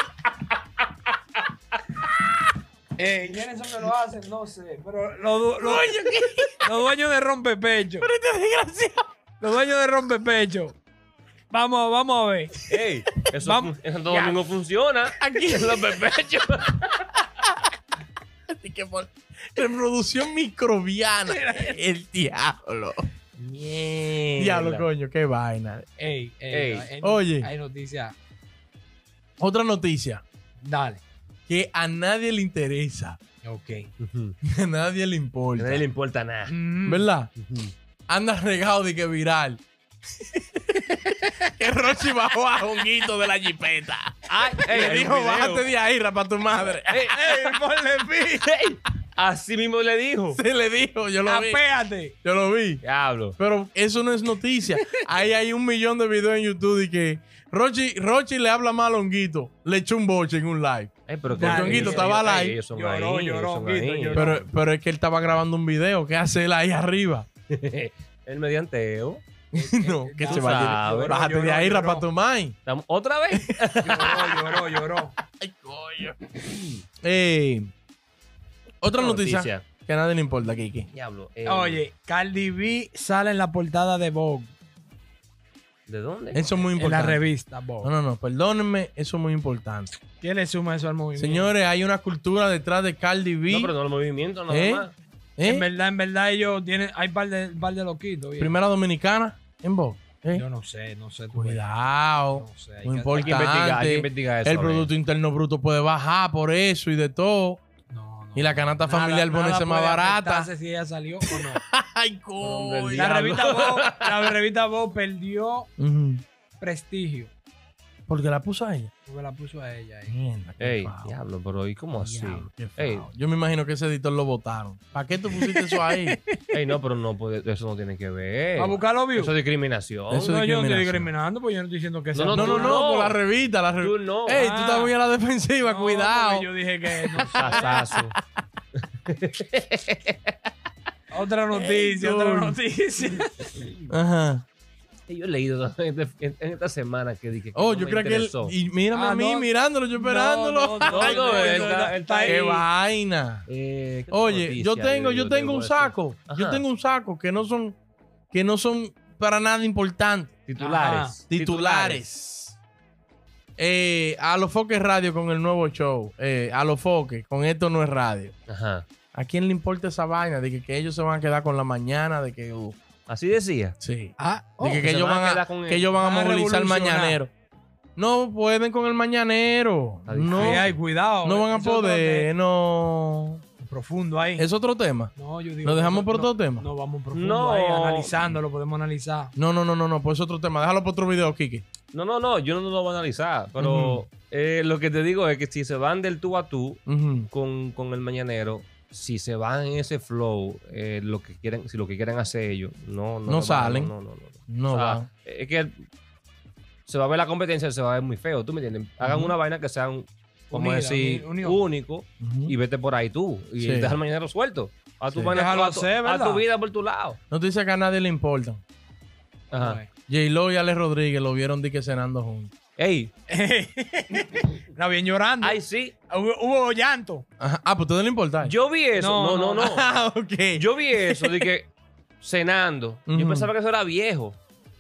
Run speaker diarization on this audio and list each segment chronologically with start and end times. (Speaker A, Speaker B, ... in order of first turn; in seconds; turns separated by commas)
Speaker A: 3.0-6.0, Speaker B: 5.6-6.8, Speaker A: 6.6-8.1, Speaker B: 8.0-9.1, Speaker A: 9.4-10.8, Speaker A: 11.5-12.6, Speaker C: 12.7-17.0, Speaker A: 13.4-14.4, Speaker B: 15.2-16.1, Speaker B: 18.5-25.9, Speaker A: 21.3-21.8, Speaker C: 24.1-24.9, Speaker A: 26.0-28.1, Speaker C: 26.5-26.9, Speaker B: 27.0-27.5, Speaker B: 29.4-30.2, Speaker A: 30.6-31.0, Speaker B: 31.5-33.2, Speaker A: 33.4-33.9, Speaker C: 34.0-34.4, Speaker B: 34.4-35.8, Speaker C: 35.6-36.5, Speaker A: 36.5-37.1, Speaker B: 36.9-37.3, Speaker C: 37.4-37.7, Speaker B: 38.1-39.6, Speaker B: 40.2-47.1, Speaker C: 44.3-45.7, Speaker C: 46.9-47.5, Speaker A: 47.1-48.5, Speaker C: 48.5-50.4, Speaker B: 50.4-51.6, Speaker A: 51.2-52.1, Speaker B: 52.2-52.8, Speaker C: 52.8-53.4, Speaker B: 53.4-62.6, Speaker C: 61.1-64.4, Speaker A: 61.3-62.2, Speaker A: 62.7-64.5, Speaker B: 64.1-67.3, Speaker C: 67.5-69.2, Speaker A: 69.5-72.1, Speaker B: 69.5-72.6, Speaker C: 70.2-71.2, Speaker C: 72.7-74.6, Speaker A: 73.8-75.1, Speaker B: 75.3-76.2, Speaker B: 77.0-77.7, Speaker B: 78.8-80.9, Speaker C: 79.0-79.7, Speaker C: 80.9-81.8, Speaker A: 81.5-84.5, Speaker C: 85.9-86.7, Speaker B: 86.3-87.2, Speaker A: 86.8-87.9, Speaker B: 87.8-89.9, Speaker A: 90.2-91.5, Speaker B: 91.2-93.7, Speaker C: 93.5-94.9, Speaker B: 94.5-94.9, Speaker B: 95.4-95.7, Speaker A: 95.5-98.6, Speaker B: 98.4-100.5, Speaker A: 100.3-101.6, Speaker B: 101.3-107.6, Speaker A: 102.3-103.4, Speaker C: 103.1-104.9, Speaker A: 107.9-111.6, Speaker B: 108.3-110.5, Speaker B: 111.3-113.4, Speaker C: 112.4-114.3, Speaker A: 112.9-115.7, Speaker B: 115.8-116.2, Speaker A: 116.6-117.3, Speaker B: 118.1-118.9, Speaker A: 119.1-120.2, Speaker B: 120.1-121.2, Speaker C: 120.6-123.1, Speaker B: 122.0-126.2, Speaker A: 125.4-126.6, Speaker C: 126.5-130.3, Speaker A: 128.6-129.3, Speaker B: 130.1-131.1, Speaker A: 130.2-132.8, Speaker C: 132.1-133.2, Speaker B: 132.3-138.1, Speaker C: 133.8-134.5, Speaker A: 134.3-134.9, Speaker A: 135.6-137.8, Speaker C: 137.3-138.2, Speaker C: 139.1-140.3, Speaker A: 141.1-143.7, Speaker B: 141.5-142.6, Speaker B: 143.9-144.4, Speaker C: 145.1-148.6, Speaker B: 147.5-153.5, Speaker A: 148.9-152.7, Speaker C: 150.8-152.5, Speaker C: 153.5-156.6, Speaker B: 154.1-157.8, Speaker B: 158.3-160.4, Speaker C: 160.5-162.0, Speaker A: 160.6-161.2, Speaker B: 161.3-162.6, Speaker B: 163.6-168.3, Speaker C: 168.5-168.8, Speaker B: 169.2-172.8, Speaker C: 173.1-173.8, Speaker B: 173.8-177.3, Speaker A: 174.2-174.8, Speaker C: 174.6-175.9, Speaker A: 175.9-177.2, Speaker B: 178.0-180.7, Speaker C: 180.1-180.8, Speaker A: 180.3-182.3, Speaker B: 181.2-183.4, Speaker A: 183.6-184.5, Speaker B: 184.4-186.7, Speaker A: 185.2-189.3, Speaker C: 187.1-188.1, Speaker B: 189.3-191.7, Speaker C: 191.9-205.8, Speaker B: 193.6-194.0, Speaker B: 196.9-197.3, Speaker B: 203.3-203.9, Speaker B: 204.5-205.1, Speaker C: 206.9-217.2, Speaker B: 209.0-209.3, Speaker A: 210.5-211.6, Speaker B: 212.2-212.6, Speaker B: 213.6-214.0, Speaker B: 215.1-215.4, Speaker A: 215.3-216.4, Speaker B: 217.3-218.6, Speaker C: 219.5-219.8, Speaker A: 219.5-219.9, Speaker B: 220.1-222.5, Speaker C: 222.8-223.1, Speaker A: 223.3-227.2, Speaker C: 225.4-225.9, Speaker B: 227.4-228.5, Speaker C: 228.4-229.9, Speaker A: 229.0-229.7, Speaker B: 229.6-231.5, Speaker C: 230.6-231.7, Speaker C: 232.2-234.4, Speaker B: 233.1-233.5